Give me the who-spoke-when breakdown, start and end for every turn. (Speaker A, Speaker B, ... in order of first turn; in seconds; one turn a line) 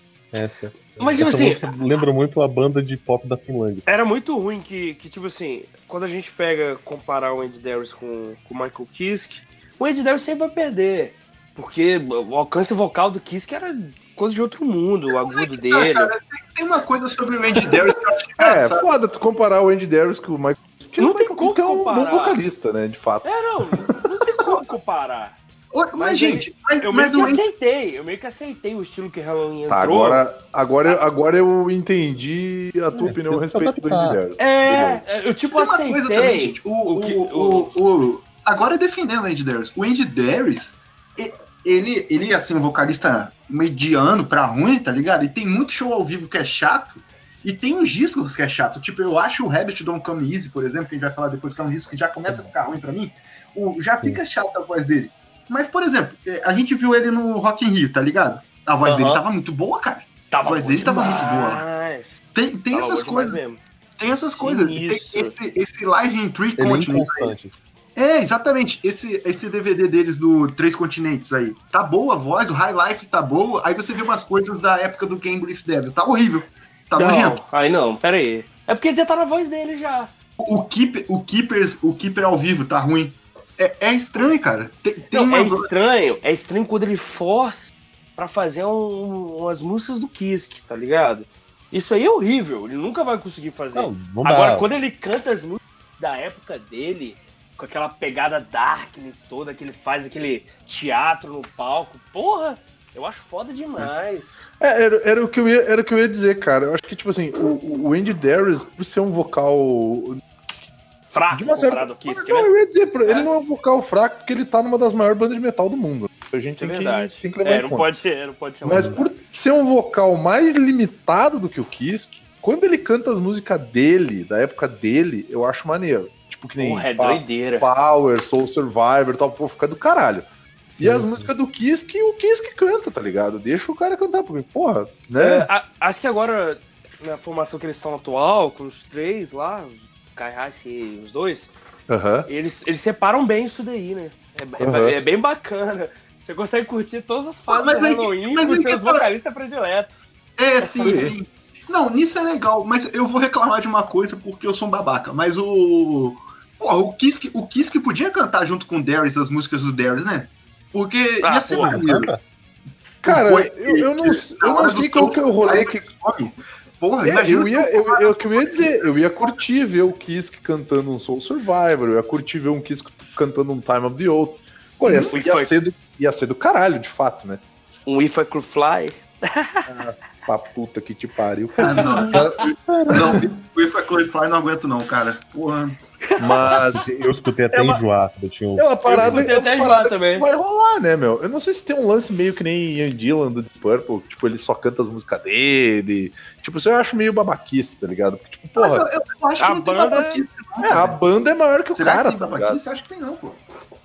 Speaker A: 0.3-3.8
Speaker B: 1.0-1.6
Speaker B: 3.9-16.1
Speaker C: 15.2-18.9
Speaker D: 18.4-23.3
Speaker B: 21.0-22.4
Speaker B: 23.2-25.3
Speaker C: 24.4-24.7
Speaker C: 25.7-27.4
Speaker B: 25.9-30.2
Speaker D: 29.7-35.0
Speaker A: 32.9-34.2
Speaker B: 34.4-37.7
Speaker C: 35.5-61.6
Speaker B: 58.8-59.2
Speaker B: 60.3-62.2
Speaker C: 62.3-63.4
Speaker B: 62.7-63.6
Speaker C: 64.0-67.3
Speaker B: 64.4-65.3
Speaker A: 66.6-67.6
Speaker C: 68.0-77.4
Speaker B: 77.0-80.1
Speaker C: 80.4-85.7
Speaker B: 85.1-104.5
Speaker A: 93.7-94.7
Speaker D: 104.6-110.2
Speaker B: 111.1-112.5
Speaker D: 111.3-117.9
Speaker B: 116.6-119.2
Speaker D: 118.6-130.3
Speaker A: 118.7-119.0
Speaker B: 126.6-127.7
Speaker A: 130.7-131.3
Speaker D: 130.8-135.5
Speaker B: 135.2-141.5
Speaker D: 141.9-142.3
Speaker B: 142.3-150.1
Speaker D: 144.6-144.9
Speaker C: 147.5-149.0
Speaker C: 150.4-162.1
Speaker D: 150.8-151.1
Speaker B: 161.2-161.9
Speaker A: 161.5-162.2
Speaker D: 163.0-165.8
Speaker C: 163.0-169.3
Speaker D: 167.0-177.4
Speaker C: 174.8-175.2
Speaker B: 175.1-175.6
Speaker B: 177.8-179.7
Speaker D: 179.7-182.4
Speaker C: 181.6-185.8
Speaker B: 181.6-182.4
Speaker A: 182.0-183.2
Speaker D: 182.9-183.2
Speaker B: 186.1-186.8
Speaker D: 186.2-186.9
Speaker A: 186.7-189.4
Speaker D: 187.5-187.8
Speaker D: 188.6-198.9
Speaker B: 188.8-190.3
Speaker C: 198.6-201.0
Speaker B: 199.4-200.2
Speaker D: 200.6-202.6
Speaker C: 201.8-203.4